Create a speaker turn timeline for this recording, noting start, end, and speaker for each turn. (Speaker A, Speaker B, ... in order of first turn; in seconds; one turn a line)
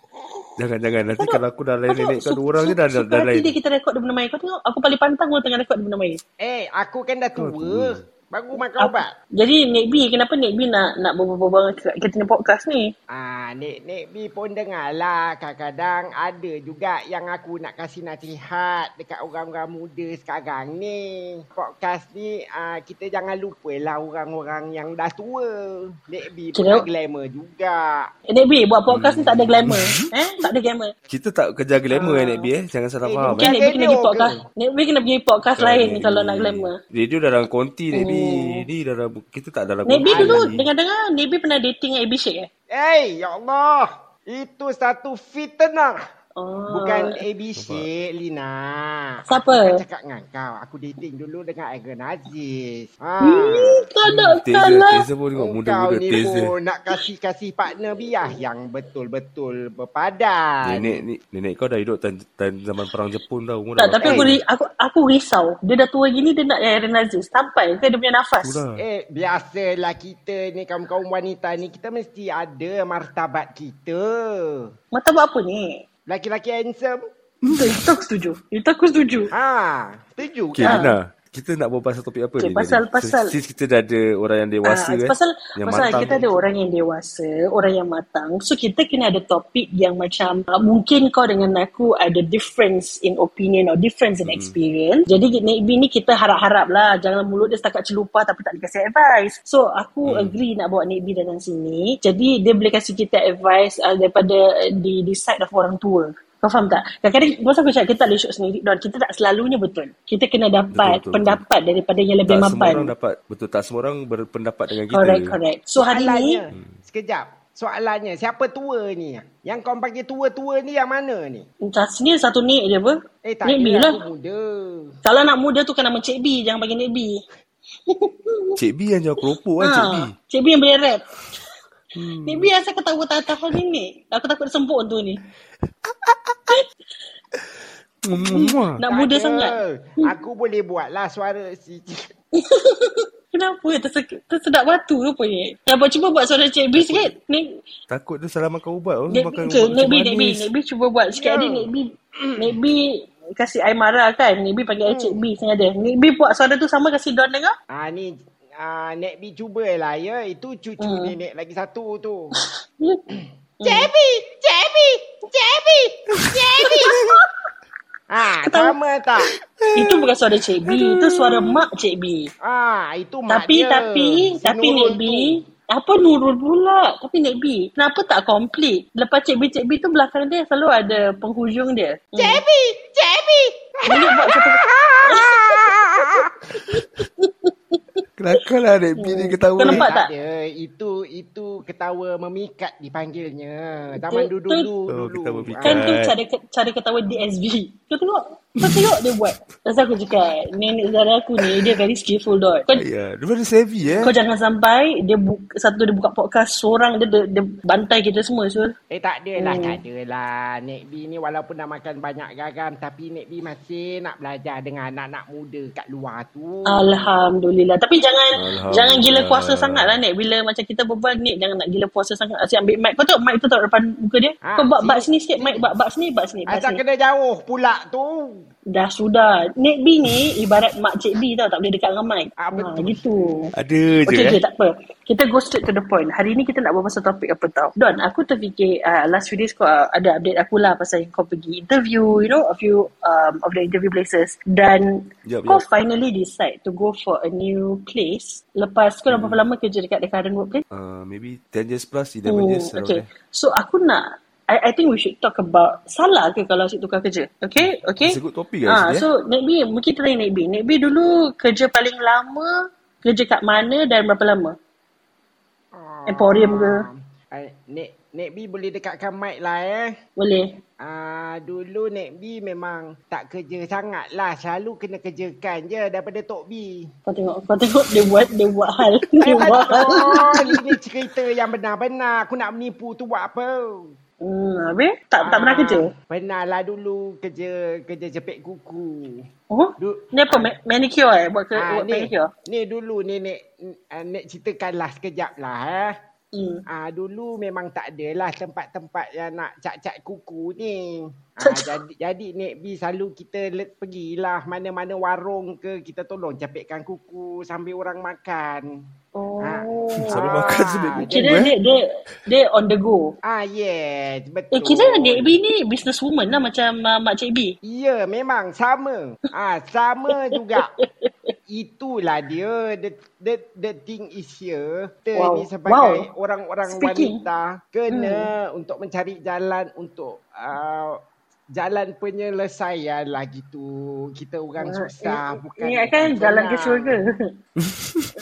Speaker A: 0.6-3.5
Speaker B: 1.9-6.2
Speaker C: 6.4-9.1
Speaker A: 7.4-8.0
Speaker B: 8.6-12.9
Speaker C: 13.1-28.1
Speaker B: 26.6-26.9
Speaker B: 28.3-30.9
Speaker A: 28.9-29.9
Speaker A: 31.1-33.5
Speaker B: 32.0-32.4
Speaker C: 33.0-34.4
Speaker B: 33.3-36.8
Speaker A: 35.4-40.7
Speaker B: 37.9-38.6
Speaker B: 39.9-42.5
Speaker C: 40.1-40.4
Speaker C: 42.7-46.0
Speaker B: 46.4-47.2
Speaker C: 46.7-53.8
Speaker A: 47.6-47.9
Speaker B: 49.3-49.8
Speaker B: 53.2-55.0
Speaker A: 54.0-56.5
Speaker C: 55.4-61.0
Speaker A: 60.6-64.4
Speaker B: 63.8-68.6
Speaker A: 68.4-68.8
Speaker C: 68.8-74.7
Speaker B: 74.9-75.8
Speaker C: 76.1-77.0
Speaker A: 77.5-77.8
Speaker B: 77.5-79.3
Speaker C: 79.3-80.8
Speaker A: 80.6-86.2
Speaker B: 80.6-81.0
Speaker B: 82.4-83.4
Speaker B: 84.6-112.9
Speaker C: 85.8-86.5
Speaker A: 94.2-94.5
Speaker A: 100.0-100.4
Speaker A: 110.7-111.4
Speaker A: 112.3-115.4
Speaker B: 114.9-116.4
Speaker C: 115.8-121.5
Speaker B: 121.6-124.0
Speaker C: 123.2-124.9
Speaker B: 125.0-127.2
Speaker B: 127.9-128.5
Speaker A: 128.6-130.1
Speaker B: 129.6-131.1
Speaker A: 132.0-132.5
Speaker B: 132.2-135.2
Speaker A: 136.1-136.6
Speaker A: 138.0-138.8
Speaker B: 138.8-140.2
Speaker C: 138.9-142.0
Speaker B: 142.4-147.6
Speaker A: 146.8-147.1
Speaker A: 147.9-150.5
Speaker B: 149.1-157.5
Speaker C: 151.2-152.5
Speaker C: 154.9-155.2
Speaker C: 157.7-162.3
Speaker B: 160.8-161.2
Speaker B: 162.4-163.0
Speaker B: 163.6-163.9
Speaker C: 163.6-166.9
Speaker A: 166.2-167.1
Speaker B: 166.7-167.2
Speaker C: 168.1-169.3
Speaker B: 168.4-168.8
Speaker A: 169.6-170.1
Speaker B: 169.8-172.3
Speaker A: 170.7-171.6
Speaker C: 172.4-175.4
Speaker B: 173.3-182.4
Speaker C: 182.2-186.3
Speaker B: 183.9-187.8
Speaker A: 188.2-189.9
Speaker B: 189.0-190.1
Speaker C: 189.8-195.8
Speaker B: 194.0-194.7
Speaker A: 194.9-196.2
Speaker B: 195.6-202.8
Speaker A: 198.6-199.0
Speaker A: 202.7-204.2
Speaker C: 203.8-204.2
Speaker B: 204.0-208.8
Speaker C: 208.9-216.9
Speaker B: 209.4-209.8
Speaker B: 216.7-226.8
Speaker A: 218.3-220.0
Speaker C: 224.4-225.7
Speaker C: 226.5-228.4
Speaker B: 228.7-233.5
Speaker C: 232.4-233.0
Speaker A: 233.5-234.4
Speaker B: 234.1-250.6
Speaker A: 245.2-245.6
Speaker A: 249.1-249.4
Speaker A: 250.7-253.1
Speaker B: 252.3-264.6
Speaker A: 257.6-259.1
Speaker C: 265.7-269.9
Speaker B: 266.1-266.9
Speaker B: 270.2-270.6
Speaker C: 270.8-276.9
Speaker B: 277.1-280.6
Speaker C: 279.2-283.6
Speaker B: 284.2-285.9
Speaker C: 285.2-289.2
Speaker B: 289.5-292.3
Speaker C: 289.8-290.5
Speaker C: 291.6-295.9
Speaker B: 296.3-296.6
Speaker C: 296.7-300.8
Speaker C: 301.4-308.7
Speaker B: 301.4-301.8
Speaker B: 309.1-313.1
Speaker C: 309.4-311.1
Speaker A: 310.0-311.6
Speaker C: 313.2-315.4
Speaker B: 314.5-317.6
Speaker C: 317.6-320.7
Speaker B: 320.2-321.1
Speaker C: 321.5-331.0
Speaker B: 325.1-326.1
Speaker B: 326.6-327.2
Speaker B: 327.9-328.3
Speaker C: 331.6-337.0
Speaker B: 334.6-337.1
Speaker A: 337.6-338.1